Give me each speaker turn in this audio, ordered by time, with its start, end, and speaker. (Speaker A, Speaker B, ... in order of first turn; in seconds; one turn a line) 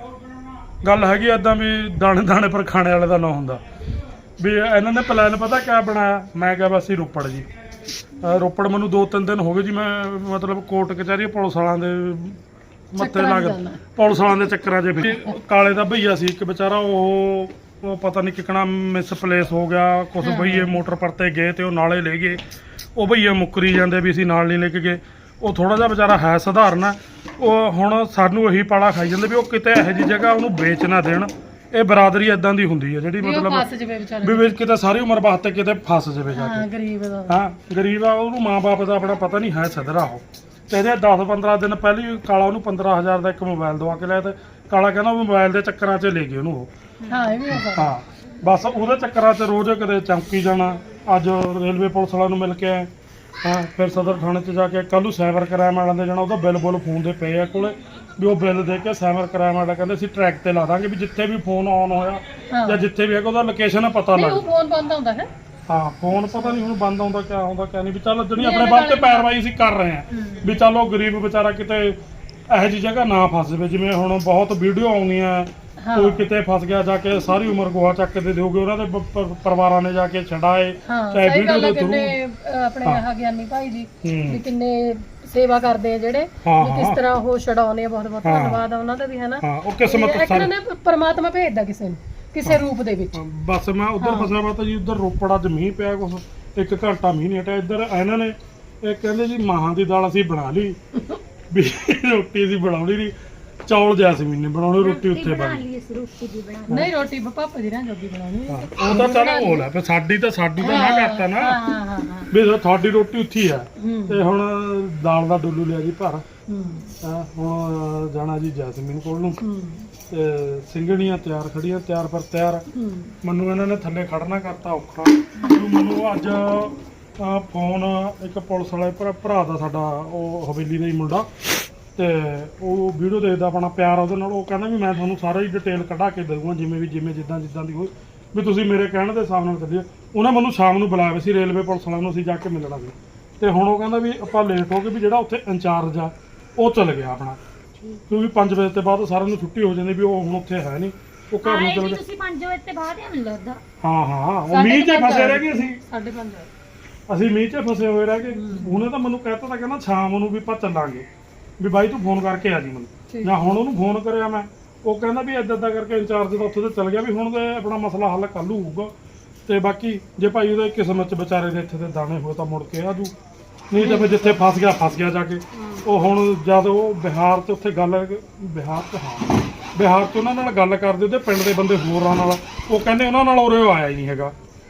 Speaker A: 0.8-3.6
Speaker A: 4.4-7.5
Speaker A: 8.2-12.4
Speaker A: 12.9-22.4
Speaker B: 13.0-13.8
Speaker B: 20.2-20.7
Speaker A: 23.0-33.7
Speaker B: 33.2-34.5
Speaker A: 34.2-36.7
Speaker B: 36.3-37.4
Speaker A: 37.3-46.7
Speaker B: 47.1-47.9
Speaker A: 47.5-52.9
Speaker A: 53.4-64.5
Speaker B: 62.5-62.8
Speaker B: 64.1-65.3
Speaker A: 65.7-72.0
Speaker B: 68.3-69.3
Speaker B: 70.2-70.5
Speaker A: 72.5-82.2
Speaker B: 75.8-76.3
Speaker B: 80.8-93.2
Speaker A: 84.0-84.4
Speaker A: 86.4-87.0
Speaker A: 88.2-88.6
Speaker A: 89.4-90.5
Speaker A: 93.1-100.8
Speaker B: 94.0-94.3
Speaker A: 101.5-103.1
Speaker A: 103.7-105.6
Speaker C: 104.8-106.9
Speaker B: 106.7-109.7
Speaker A: 108.5-111.5
Speaker B: 110.6-112.3
Speaker A: 112.3-116.2
Speaker B: 113.8-114.2
Speaker B: 116.5-116.9
Speaker A: 117.0-119.4
Speaker B: 119.4-119.9
Speaker A: 120.1-122.7
Speaker B: 122.7-123.1
Speaker A: 123.2-131.3
Speaker A: 131.9-147.4
Speaker A: 148.1-152.0
Speaker C: 151.4-153.6
Speaker A: 153.8-155.8
Speaker B: 154.5-156.5
Speaker A: 157.1-161.1
Speaker B: 158.3-158.8
Speaker A: 161.6-168.9
Speaker B: 163.1-163.5
Speaker A: 169.5-173.1
Speaker A: 173.7-184.3
Speaker B: 173.8-174.4
Speaker B: 175.6-175.8